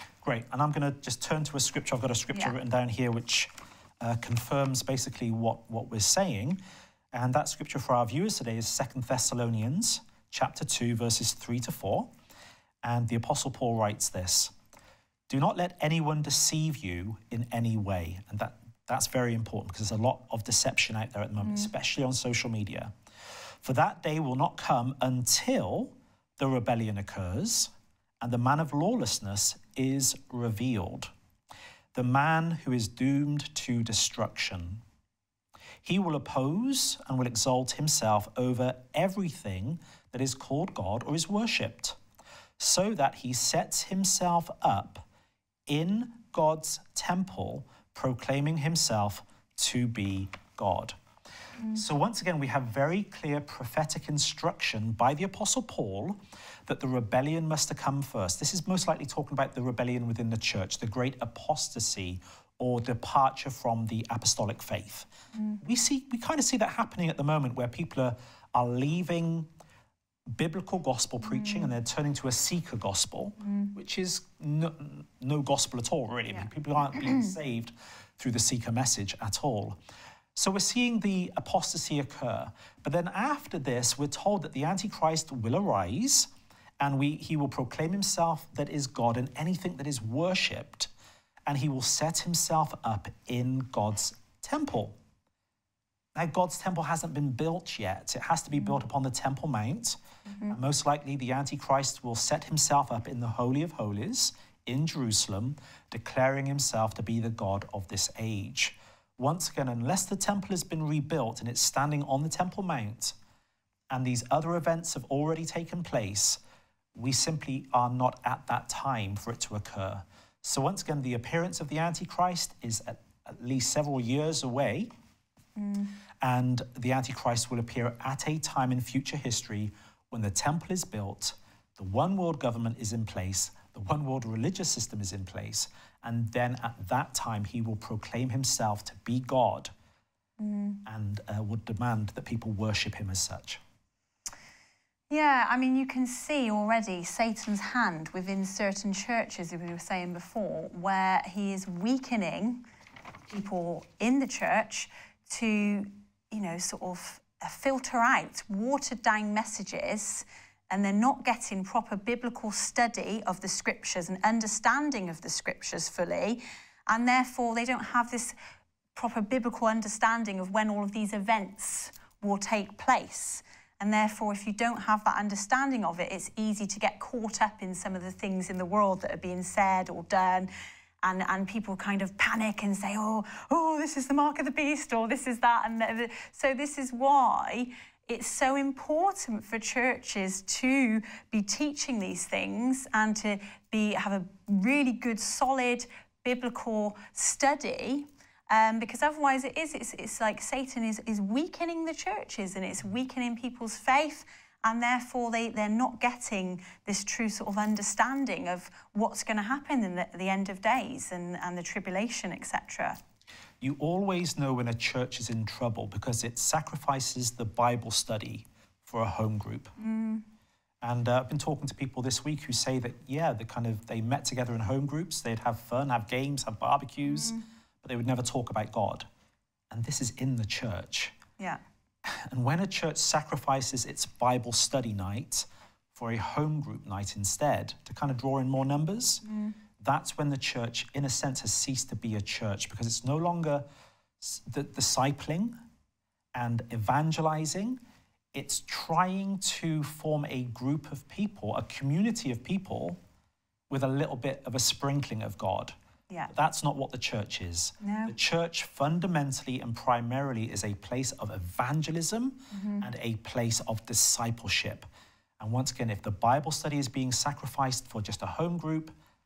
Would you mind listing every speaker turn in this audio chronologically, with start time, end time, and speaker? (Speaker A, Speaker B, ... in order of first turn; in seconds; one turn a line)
Speaker A: 0.2-3.5
Speaker A: 4.0-6.6
Speaker A: 7.1-12.1
Speaker A: 12.8-14.5
Speaker A: 15.3-22.9
Speaker B: 21.4-21.7
Speaker A: 23.6-31.1
Speaker A: 31.9-34.8
Speaker A: 35.8-42.0
Speaker A: 42.6-45.0
Speaker A: 45.7-50.9
Speaker A: 51.7-65.1
Speaker A: 65.6-69.5
Speaker A: 70.3-79.8
Speaker A: 80.3-86.3
Speaker A: 86.8-90.9
Speaker A: 91.5-94.9
Speaker A: 96.1-113.1
Speaker A: 113.9-116.4
Speaker A: 116.9-124.9
Speaker B: 125.6-125.9
Speaker A: 126.2-139.7
Speaker B: 140.4-140.8
Speaker A: 140.8-143.6
Speaker B: 145.1-152.6
Speaker B: 153.3-168.3
Speaker B: 168.9-180.5
Speaker B: 181.0-213.0
Speaker A: 213.6-219.7
Speaker B: 219.8-220.2
Speaker A: 220.8-229.1
Speaker B: 227.0-227.4
Speaker A: 229.7-231.1
Speaker A: 232.0-239.2
Speaker B: 239.2-239.5
Speaker A: 239.8-243.6
Speaker A: 244.2-245.6
Speaker A: 246.3-247.8
Speaker A: 248.3-253.0
Speaker A: 253.7-255.7
Speaker A: 256.3-264.9
Speaker B: 257.8-258.1
Speaker B: 262.5-262.9
Speaker A: 265.4-268.9